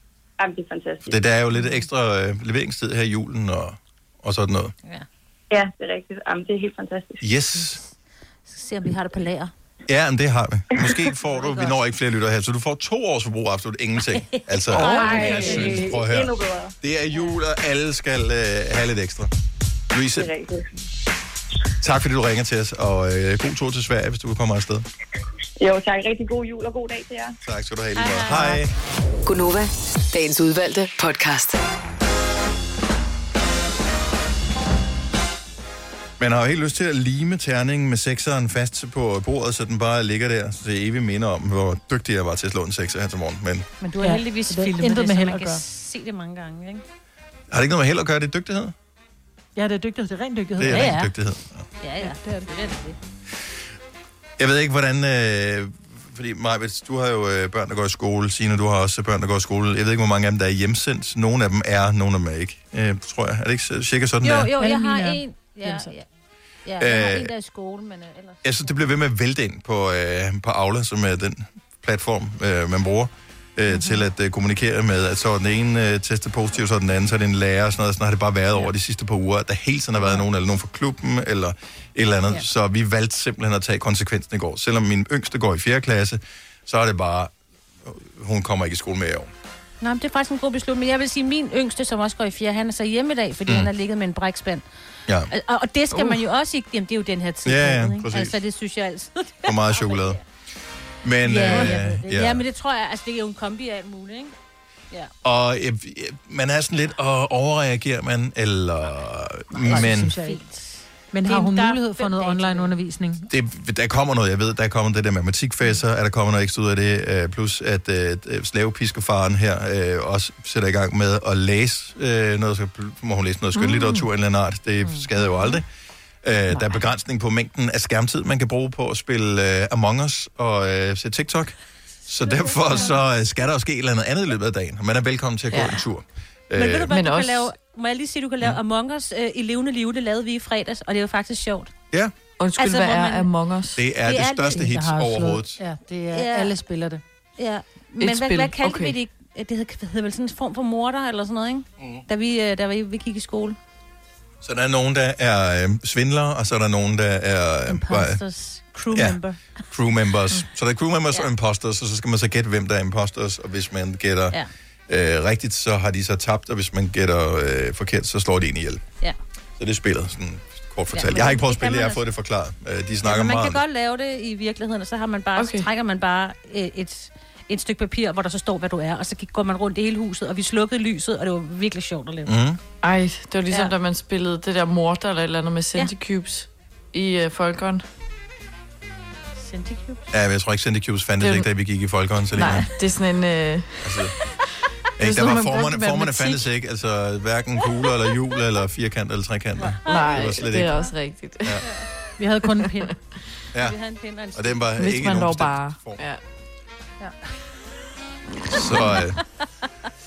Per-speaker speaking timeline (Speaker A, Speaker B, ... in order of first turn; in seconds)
Speaker A: 0.4-1.2, 5.5-7.2, 14.9-16.7, 20.1-20.6, 25.6-27.3
Speaker B: 1.1-4.7, 7.2-7.8, 9.9-19.3, 19.9-20.3, 21.8-24.9, 27.4-28.7, 36.2-43.7, 47.5-48.7, 50.6-51.7, 54.4-64.5, 66.8-67.3, 68.4-87.3, 87.8-89.3, 97.4-98.4, 99.5-100.2, 101.0-102.4, 105.2-110.1, 113.3-125.6, 126.2-131.5, 132.1-136.9, 143.8-145.6, 154.4-158.2, 158.9-159.2, 159.7-164.3, 164.9-168.8, 169.6-173.6, 182.2-182.6, 190.1-192.7, 193.8-194.1, 195.0-200.8, 204.3-206.0, 208.5-209.2
Speaker C: 1.5-1.8, 8.5-9.5, 11.3-11.8, 14.2-15.8, 27.9-28.6, 43.8-46.8, 50.6-51.1, 51.8-53.0, 64.2-66.0, 66.6-68.8, 73.7-74.0, 89.8-94.6, 95.3-100.2, 101.2-104.3, 109.6-112.7, 132.4-133.0, 136.5-141.7, 142.6-143.3, 144.0-144.6, 146.1-146.6, 147.4-153.6, 157.7-159.4, 170.9-172.0, 173.0-182.3, 189.4-190.0, 199.6-200.9, 203.5-204.7, 208.7-209.1
Speaker D: 14.7-15.8, 44.0-45.6, 49.5-51.0, 64.6-66.0, 101.5-101.8, 109.6-110.4, 111.1-113.3, 144.5-147.0, 202.2-202.9
Speaker E: 29.2-31.6
Speaker F: 123.5-124.1, 135.5-135.8, 136.9-137.5, 142.4-143.8, 148.0-148.9, 175.3-175.7, 182.8-187.8, 191.2-191.5, 192.3-194.1, 195.0-196.4, 199.8-201.6, 204.8-206.2